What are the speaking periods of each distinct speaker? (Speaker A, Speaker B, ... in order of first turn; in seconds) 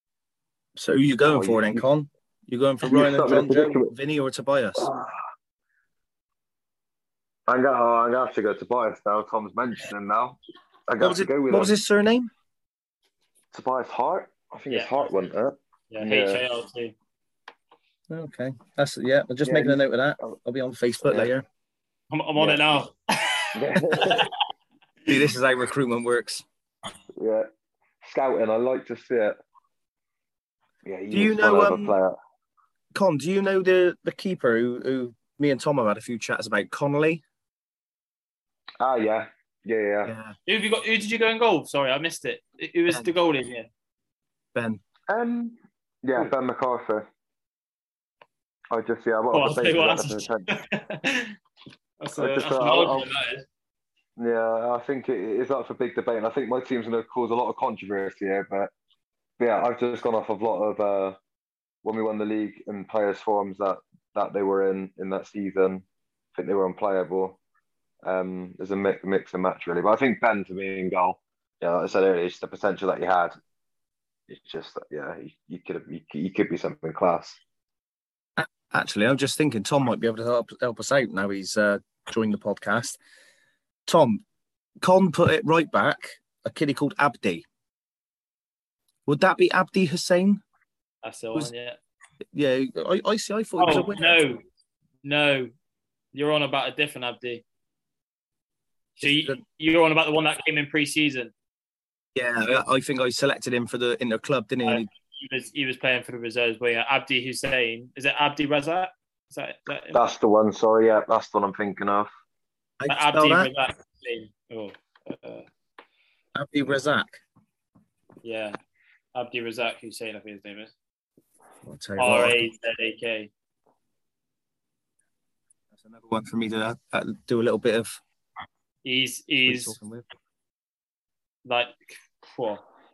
Speaker A: 0.8-4.9, 11.0-12.3, 18.1-21.4, 25.1-26.4, 31.1-32.0, 32.9-37.2, 40.1-40.4, 44.5-44.8, 78.4-83.0, 83.9-84.2, 84.8-87.5, 89.1-90.4, 92.3-94.2, 99.0-99.4, 102.2-104.9, 112.8-113.5, 116.3-117.2, 121.7-122.5, 125.8-128.0, 129.4-130.1
Speaker B: 1.2-1.9, 2.8-3.9, 4.8-5.1, 7.5-11.7, 13.5-16.4, 19.4-20.4, 21.0-21.3, 23.6-24.3, 27.2-27.5, 28.0-29.4, 30.9-32.1, 38.8-40.1, 45.1-47.1, 48.7-50.5, 52.2-53.1, 54.2-58.7, 59.4-61.2, 61.8-67.4, 68.0-73.3, 74.3-77.4, 109.9-112.1
Speaker C: 14.7-15.1, 15.9-16.9, 22.1-24.3, 40.5-43.7, 49.3-51.4, 52.0-53.5, 91.0-91.8, 93.6-94.4, 95.0-95.5, 96.1-97.4, 99.0-101.3, 104.7-110.0, 112.9-115.5, 118.2-118.6, 119.2-120.7, 122.0-123.3, 128.8-129.8, 131.4-132.6